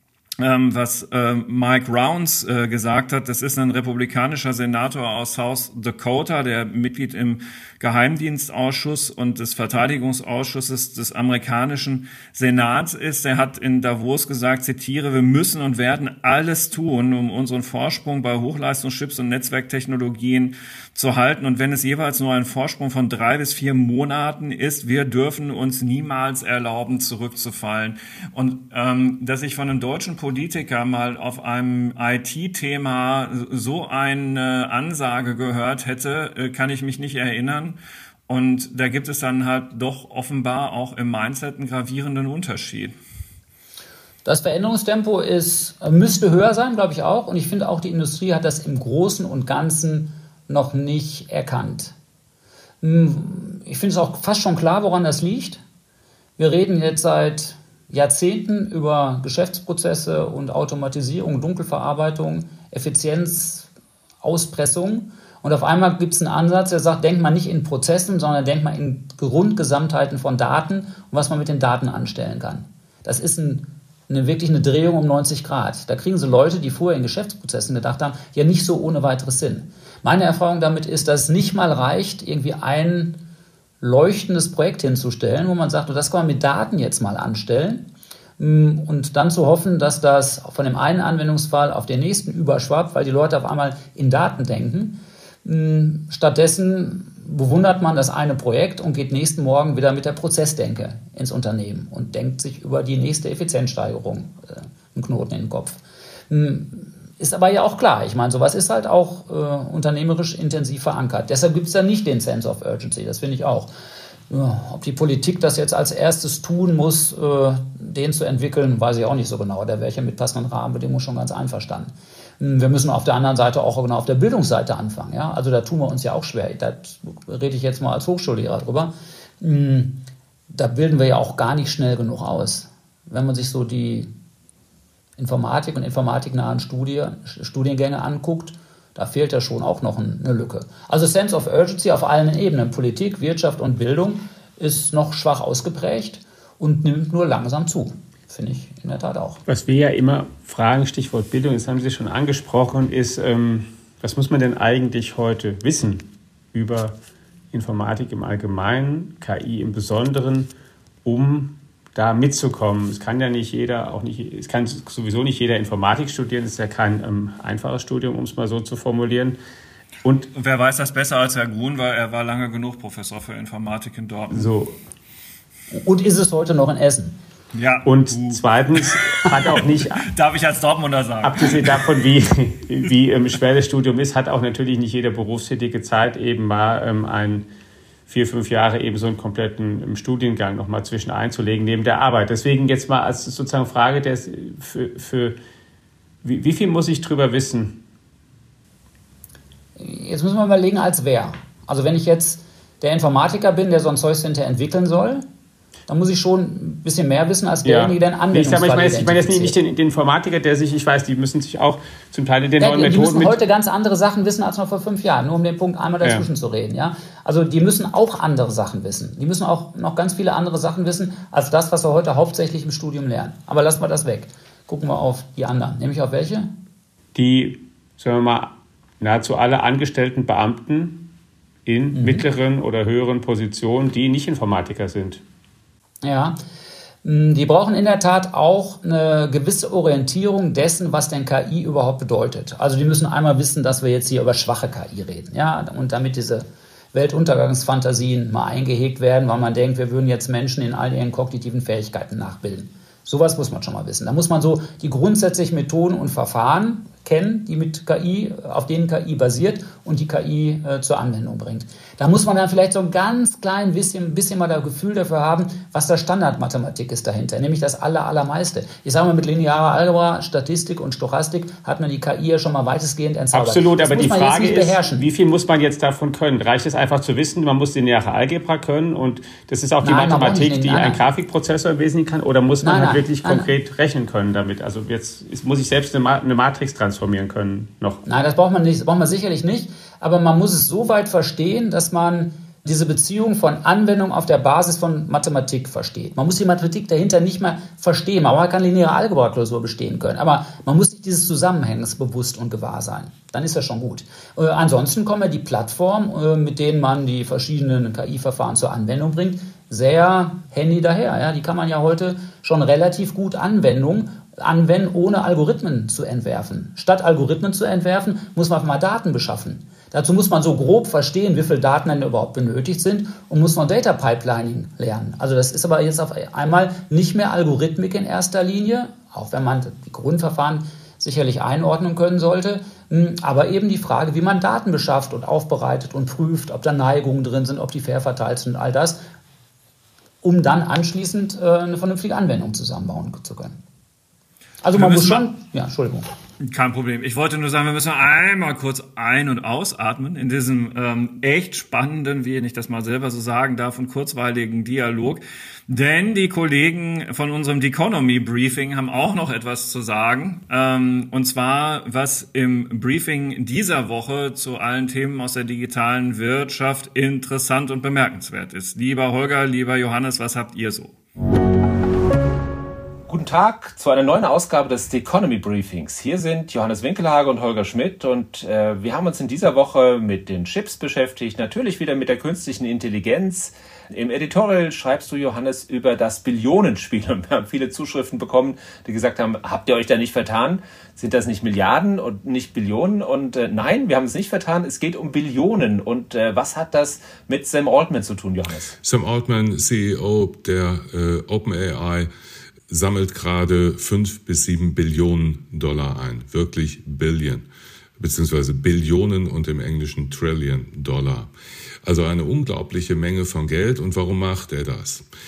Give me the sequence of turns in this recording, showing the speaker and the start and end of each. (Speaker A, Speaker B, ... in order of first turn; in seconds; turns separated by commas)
Speaker A: 0.4-37.8, Speaker A: 38.3-43.0, Speaker B: 44.2-52.0, Speaker B: 52.8-55.6, Speaker B: 56.4-63.7, Speaker B: 64.2-83.2, Speaker B: 83.8-113.7, Speaker B: 114.3-134.1, Speaker B: 135.2-149.4, Speaker C: 149.5-157.0, Speaker C: 157.5-160.5, Speaker C: 161.1-169.4, Speaker C: 170.0-170.3, Speaker A: 170.3-174.5, Speaker C: 174.3-174.8, Speaker B: 175.7-177.2, Speaker A: 177.5-182.0, Speaker C: 177.8-180.1, Speaker C: 181.2-187.5, Speaker C: 188.1-195.4, Speaker C: 196.2-197.8, Speaker B: 199.8-205.2, Speaker B: 205.9-209.6, Speaker C: 207.6-213.4, Speaker B: 212.6-226.6, Speaker C: 216.0-216.3, Speaker C: 227.2-231.1, Speaker C: 231.7-235.2, Speaker B: 231.9-232.3, Speaker B: 236.0-236.4, Speaker B: 237.0-275.1, Speaker C: 273.3-288.0, Speaker B: 279.8-281.0, Speaker B: 282.6-283.5, Speaker B: 288.1-339.0, Speaker B: 340.2-343.6, Speaker B: 344.6-346.1, Speaker A: 344.7-345.3, Speaker A: 346.4-370.9, Speaker D: 373.1-398.8, Speaker E: 398.8-402.1, Speaker E: 402.7-407.5, Speaker E: 408.0-411.3, Speaker E: 411.8-415.1